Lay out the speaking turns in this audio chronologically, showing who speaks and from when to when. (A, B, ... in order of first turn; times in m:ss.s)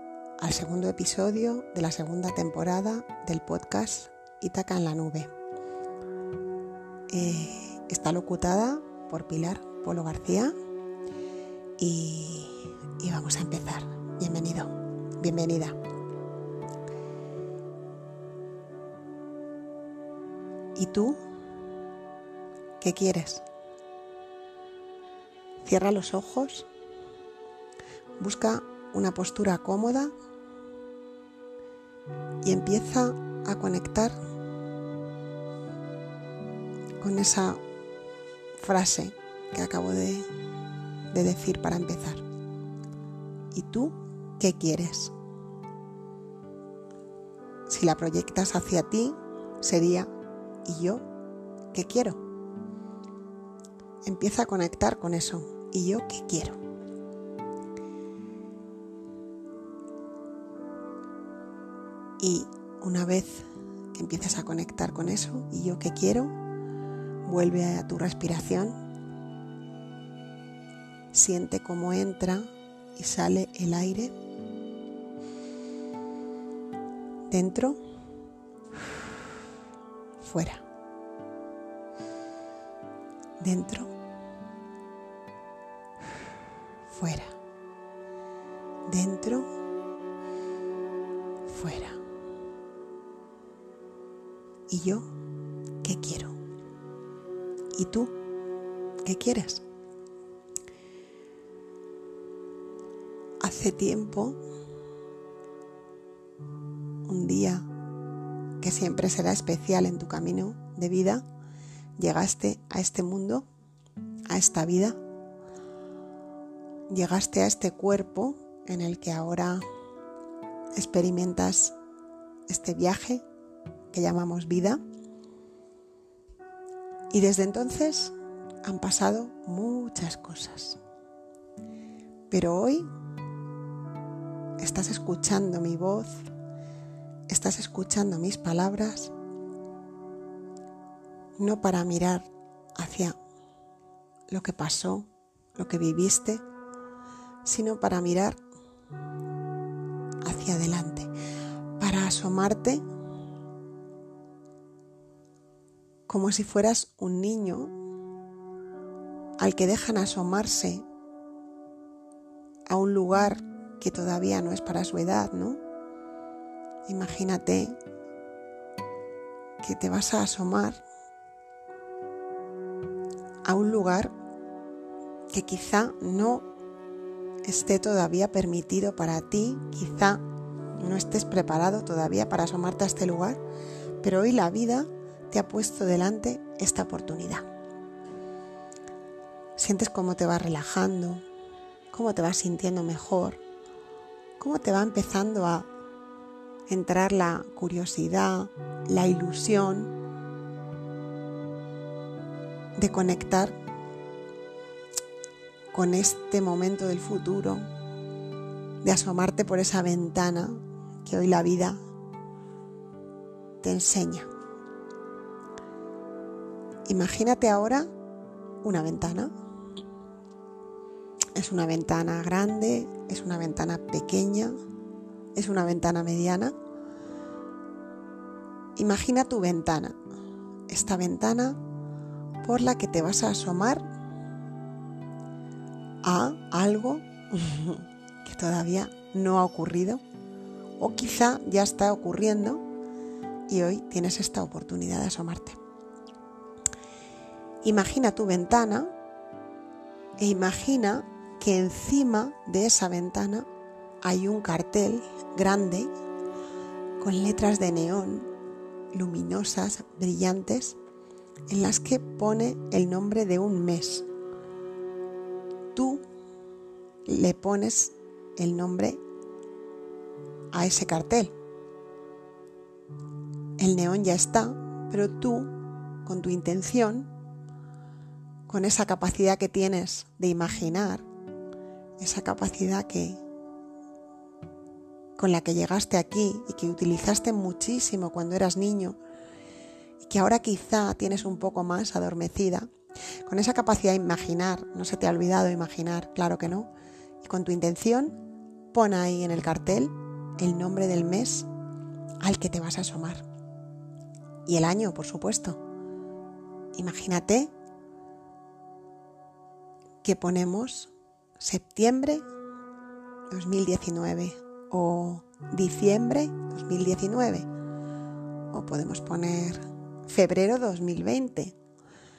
0:00.4-0:05.3 A
0:07.1-0:10.6 A
0:11.8-0:15.8 A
0:20.8-0:21.2 A
0:22.8-0:23.4 A
0:25.6-0:26.7 A
0:28.2-0:30.1 A
0:32.4-0:34.2 A
0:37.0-0:37.6 A
0:38.6-0:40.3 A
0:41.1-0:42.2 A
0:43.5-0:45.1 A
0:47.7-0:50.1 A
0:50.6-0:51.0 A
0:51.7-0:52.2 A
0:54.0-0:56.6 A
1:02.2-1:06.4 A
1:07.2-1:08.8 A
1:11.1-1:14.1 A
1:17.3-1:17.8 A
1:20.2-1:20.6 A
1:23.4-1:24.0 A
1:26.9-1:27.4 A
1:28.9-1:29.5 A
1:31.5-1:32.0 A
1:34.7-1:35.1 A
1:35.8-1:36.4 A
1:37.7-1:38.1 A
1:39.0-1:39.6 A
1:43.4-1:44.4 A
1:47.1-1:47.7 A
1:48.6-1:51.2 A
1:52.0-1:53.5 A
1:54.3-1:55.0 A
1:56.9-1:59.6 A
2:00.8-2:01.8 A
2:02.5-2:03.2 A
2:03.9-2:04.8 A
2:07.1-2:10.8 A
2:12.3-2:12.9 A
2:14.6-2:16.2 A
2:17.3-2:19.1 A
2:21.4-2:23.2 A
2:24.3-2:26.4 A
2:27.4-2:28.4 A
2:30.2-2:31.1 A
2:31.8-2:32.8 A
2:36.1-2:37.7 A
2:39.4-2:40.8 A
2:42.7-2:45.6 A
2:46.9-2:47.8 A
2:49.6-2:50.8 A
2:53.4-2:54.1 A
2:55.3-2:56.5 A
2:57.4-3:00.2 A
3:00.8-3:03.4 A
3:04.0-3:07.5 A
3:09.6-3:11.2 A
3:11.9-3:13.4 A
3:14.4-3:15.7 A
3:16.7-3:20.0 A
3:22.8-3:23.6 A
3:25.7-3:27.7 A
3:28.8-3:31.8 A
3:33.6-3:34.3 A
3:36.9-3:37.9 A
3:38.6-3:39.3 A
3:41.4-3:44.6 A
3:45.4-3:46.6 A
3:48.8-3:50.0 A
3:50.7-3:51.6 A
3:52.4-3:53.8 A
3:56.0-4:00.0 A
4:00.8-4:02.6 A
4:03.5-4:05.6 A
4:07.6-4:08.9 A
4:10.2-4:13.5 A
4:14.0-4:15.9 A
4:17.0-4:18.3 A
4:18.9-4:20.8 A
4:21.5-4:24.1 A
4:25.7-4:26.1 A
4:27.1-4:29.0 A
4:30.5-4:31.3 A
4:33.6-4:37.1 A
4:38.5-4:41.1 A
4:42.0-4:43.2 A
4:45.2-4:49.0 A
4:50.0-4:52.7 A
4:53.2-4:58.2 A
4:58.7-5:01.5 A
5:02.2-5:03.2 A
5:04.5-5:05.6 A
5:06.7-5:07.5 A
5:10.0-5:12.2 A
5:13.3-5:17.5 A
5:18.5-5:21.6 A